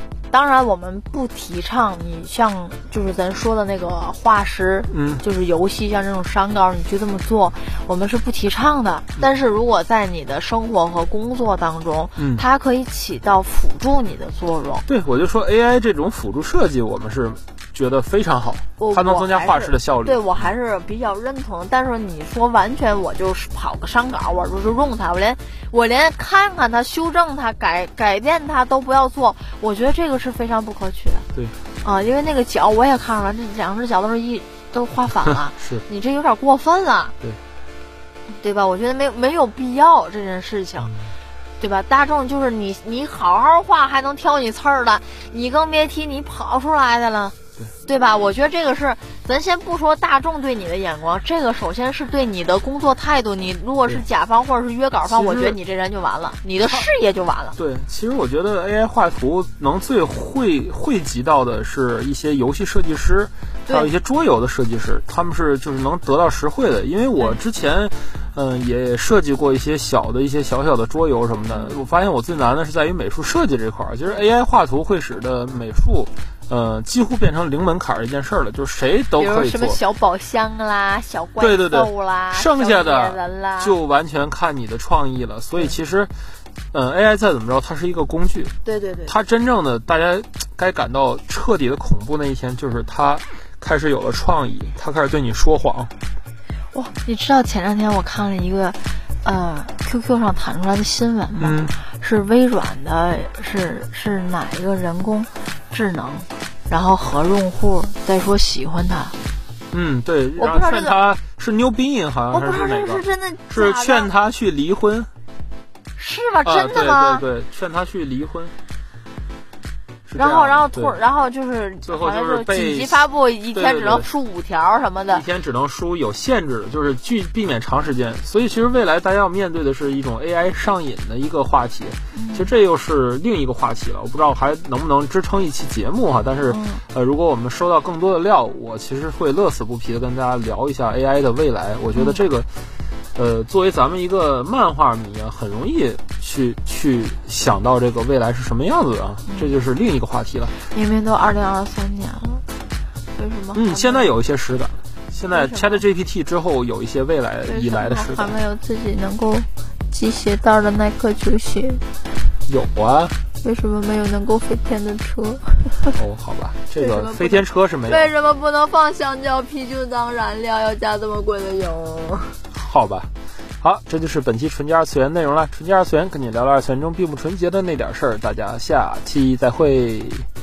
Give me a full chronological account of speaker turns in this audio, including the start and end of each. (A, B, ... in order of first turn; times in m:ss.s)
0:00.3-0:14.8 A
0:04.9-0:05.2 B
0:12.2-0:12.4 B
0:14.8-0:20.3 B
0:18.8-0:31.3 A
0:31.8-0:37.1 A
0:35.6-0:35.8 B
0:38.3-0:40.9 A
0:40.8-0:41.1 B
0:41.6-0:57.6 A
0:55.0-0:55.6 B
0:56.6-0:56.9 B
0:57.6-1:19.8 B
1:03.6-1:03.9 A
1:11.5-1:11.8 A
1:19.2-1:23.7 A
1:21.4-1:26.1 B
1:26.7-1:28.5 B
1:28.6-1:29.1 A
1:29.1-1:35.9 B
1:36.7-1:49.2 A
1:41.4-1:41.7 B
1:49.7-1:55.1 B
1:50.4-1:51.0 A
1:52.3-1:54.1 A
1:56.0-1:57.2 A
1:56.4-1:58.5 B
2:00.1-2:00.9 B
2:00.2-2:05.2 A
2:01.8-2:04.1 B
2:05.1-2:22.6 B
2:12.1-2:12.5 A
2:16.5-2:16.8 A
2:21.9-2:22.2 A
2:23.1-2:30.6 B
2:29.3-2:29.5 A
2:30.7-2:32.4 A
2:33.1-2:34.1 A
2:33.5-2:38.4 B
2:35.3-2:35.8 A
2:37.4-2:41.8 A
2:42.5-2:43.2 B
2:43.4-2:46.0 A
2:45.9-2:48.1 B
2:46.8-2:52.4 A
2:52.5-2:53.1 B
2:53.6-3:00.3 B